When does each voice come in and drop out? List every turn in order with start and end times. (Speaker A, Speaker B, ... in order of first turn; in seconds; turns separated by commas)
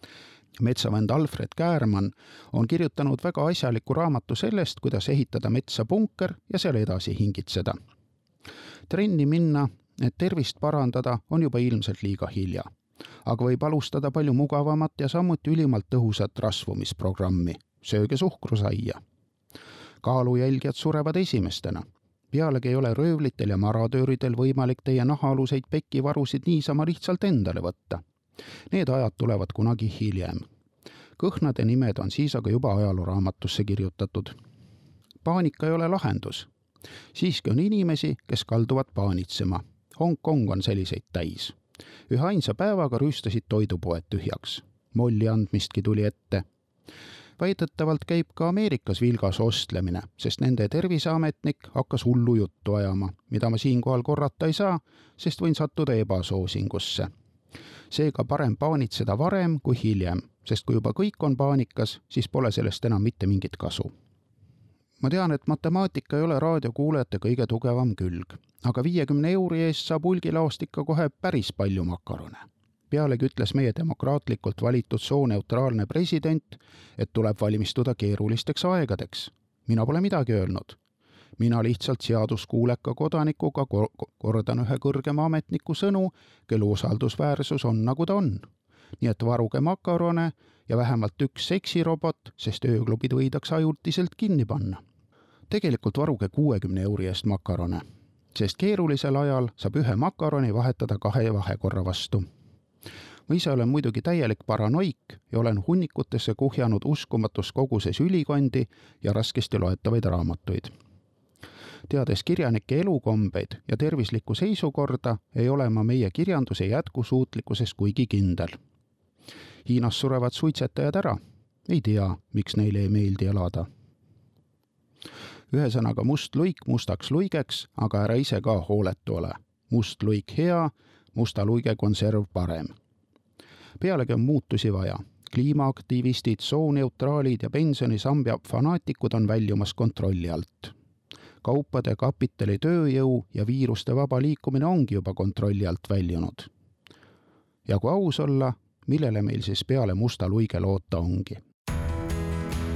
Speaker A: 0.6-7.8, Speaker A: 8.9-12.7, Speaker A: 13.2-19.0, Speaker A: 20.0-28.0, Speaker A: 28.7-30.4, Speaker A: 31.2-34.3, Speaker A: 35.2-36.5, Speaker A: 37.1-41.6, Speaker A: 42.1-46.5, Speaker A: 47.4-57.1, Speaker A: 57.9-63.9, Speaker A: 65.0-80.8, Speaker A: 81.4-88.5, Speaker A: 89.0-94.8, Speaker A: 95.5-102.2, Speaker A: 103.3-110.7, Speaker A: 111.9-118.5, Speaker A: 119.6-123.7, Speaker A: 125.5-132.7, Speaker A: 133.8-140.7, Speaker A: 141.4-146.5, Speaker A: 147.7-151.4